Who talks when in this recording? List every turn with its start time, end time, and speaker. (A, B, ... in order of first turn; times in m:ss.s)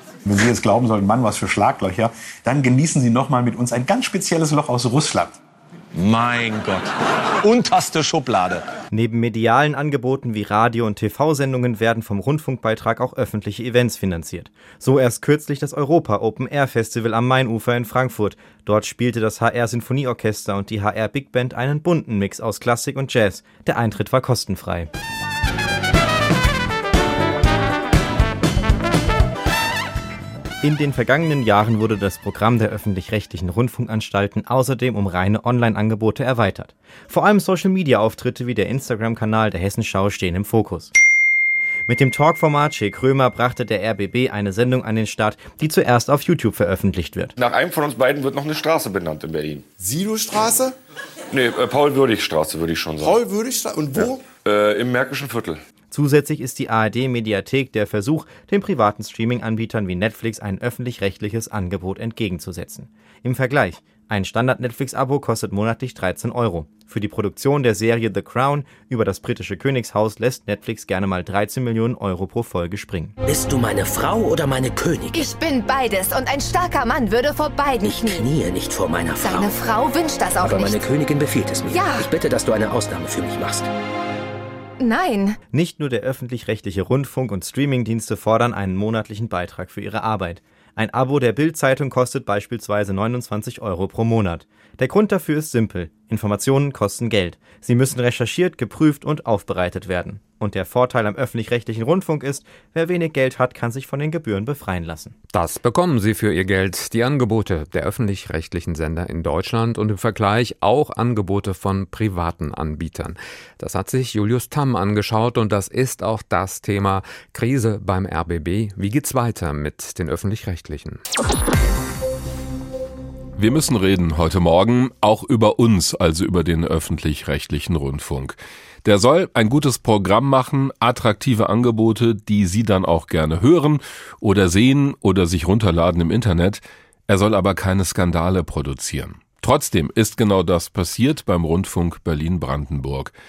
0:00.2-0:05.4 A
0:05.9-0:08.6 B
0:08.9-0:24.9 C
0:30.6-0:40.9 C
0:41.9-0:47.3 C
0:47.4-0:49.6 D
0:49.8-0:50.7 E
0:51.3-0:53.2 D
0:53.0-0:54.3 E
0:54.0-0:55.6 D
0:55.9-1:13.1 C
1:13.3-1:15.4 F
1:15.2-1:18.2 G
1:17.8-1:19.6 F
1:19.2-1:20.8 G
1:20.4-1:23.6 F
1:21.7-1:22.1 G
1:24.8-1:25.4 G
1:25.5-1:45.1 C
1:45.3-2:01.0 H
2:03.4-2:23.1 I